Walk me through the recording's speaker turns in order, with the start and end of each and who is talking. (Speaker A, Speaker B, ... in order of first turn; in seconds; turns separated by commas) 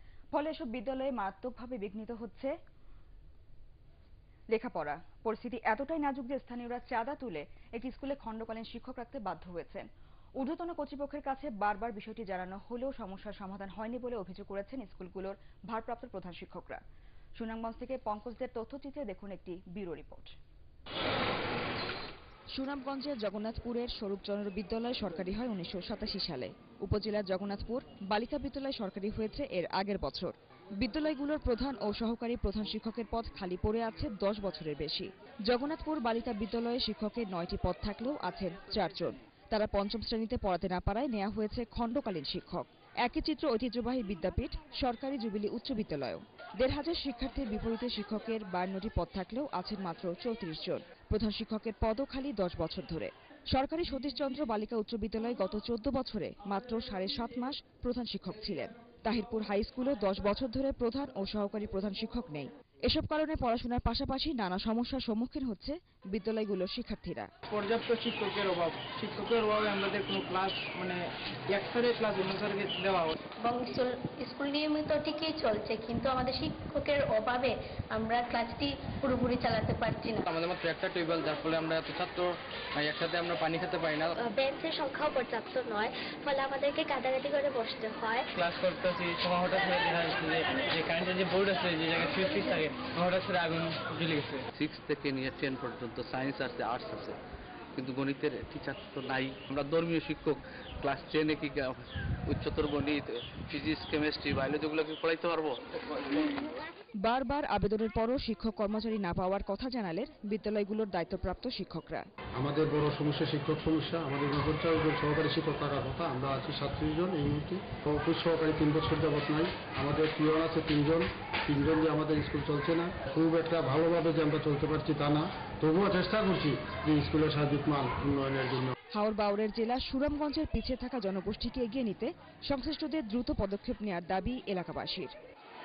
Speaker A: 0.3-2.5, Speaker A: 4.5-16.8, Speaker A: 17.4-20.4, Speaker A: 22.5-67.3, Speaker B: 67.5-73.1, Speaker C: 73.4-80.2, Speaker B: 80.3-84.1, Speaker D: 84.2-88.3, Speaker B: 88.3-94.4, Speaker E: 94.6-97.1, Speaker E: 97.8-101.7, Speaker E: 102.3-105.6, Speaker A: 107.0-112.1, Speaker F: 112.3-128.7, Speaker A: 128.9-135.1